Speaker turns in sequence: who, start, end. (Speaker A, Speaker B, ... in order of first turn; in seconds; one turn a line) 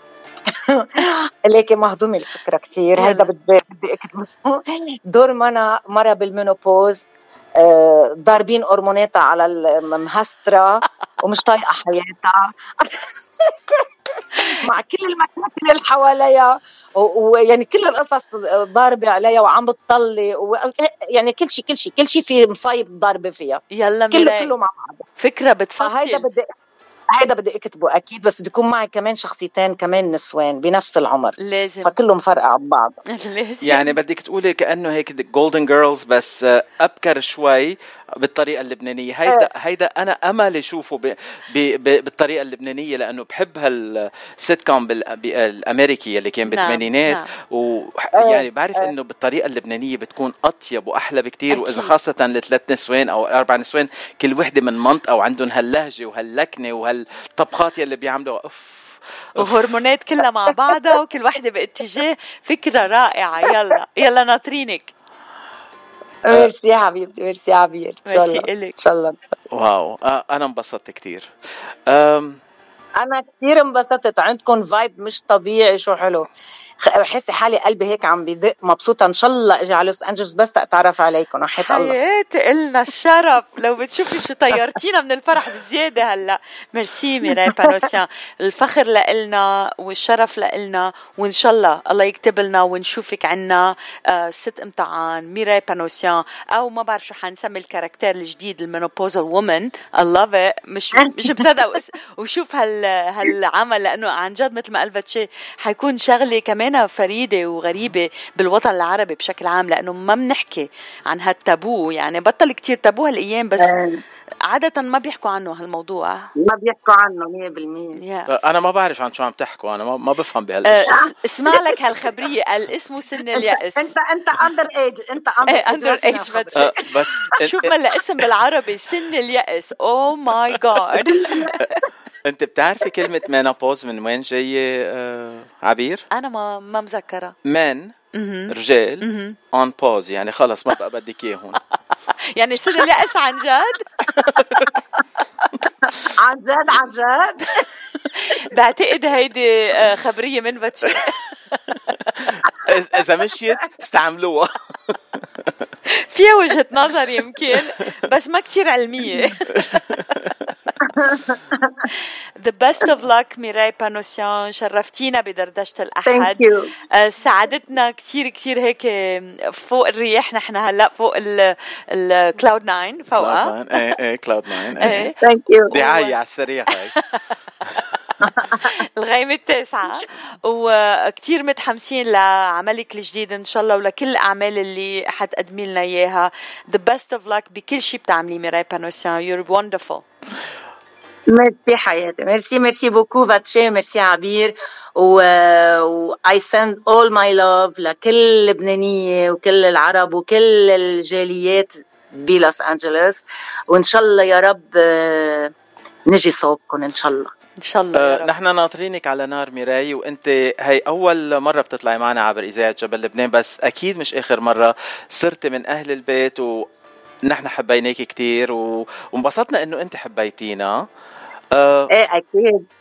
Speaker A: 0.5-7.1
Speaker B: 3.0-3.3
Speaker A: 7.6-25.1
Speaker B: 23.7-24.5
Speaker B: 25.2-26.2
Speaker A: 25.8-26.5
Speaker A: 27.1-33.0
Speaker B: 31.4-31.9
Speaker B: 33.1-34.0
Speaker C: 33.6-59.6
Speaker B: 46.5-47.3
Speaker A: 48.2-48.9
Speaker B: 51.5-51.9
Speaker B: 59.4-64.9
Speaker A: 66.3-69.2
Speaker B: 68.1-68.8
Speaker C: 69.5-71.3
Speaker C: 71.9-72.4
Speaker A: 73.0-76.3
Speaker A: 76.8-82.0
Speaker B: 81.5-113.8
Speaker A: 87.5-87.8
Speaker A: 101.0-101.4
Speaker A: 113.6-114.0
Speaker B: 114.5-116.3
Speaker A: 116.4-118.0
Speaker B: 118.0-118.3
Speaker C: 118.3-121.0
Speaker B: 120.7-124.0
Speaker A: 120.9-121.8
Speaker A: 123.3-126.7
Speaker B: 125.5-131.8
Speaker C: 126.6-128.2
Speaker A: 131.0-131.6
Speaker C: 132.2-136.1
Speaker B: 136.1-137.3
Speaker C: 137.4-137.9
Speaker B: 138.1-139.4
Speaker C: 138.5-141.6
Speaker B: 142.3-144.1
Speaker C: 144.1-144.8
Speaker A: 146.1-147.7
Speaker B: 148.1-151.2
Speaker C: 151.7-155.5
Speaker B: 155.9-159.8
Speaker C: 157.5-157.9
Speaker C: 159.5-160.5
Speaker A: 160.8-161.9
Speaker B: 162.4-173.9
Speaker A: 166.1-166.7
Speaker C: 173.2-175.1
Speaker B: 174.8-175.2
Speaker A: 175.2-175.7
Speaker B: 175.7-176.2
Speaker C: 175.7-176.9
Speaker B: 176.7-177.2
Speaker C: 177.6-178.0
Speaker A: 178.2-178.8
Speaker B: 178.6-190.0
Speaker A: 191.3-205.5
Speaker A: 206.1-207.3
Speaker B: 207.6-208.3
Speaker C: 207.9-216.7
Speaker C: 217.3-220.9
Speaker C: 221.5-221.9
Speaker A: 221.9-222.6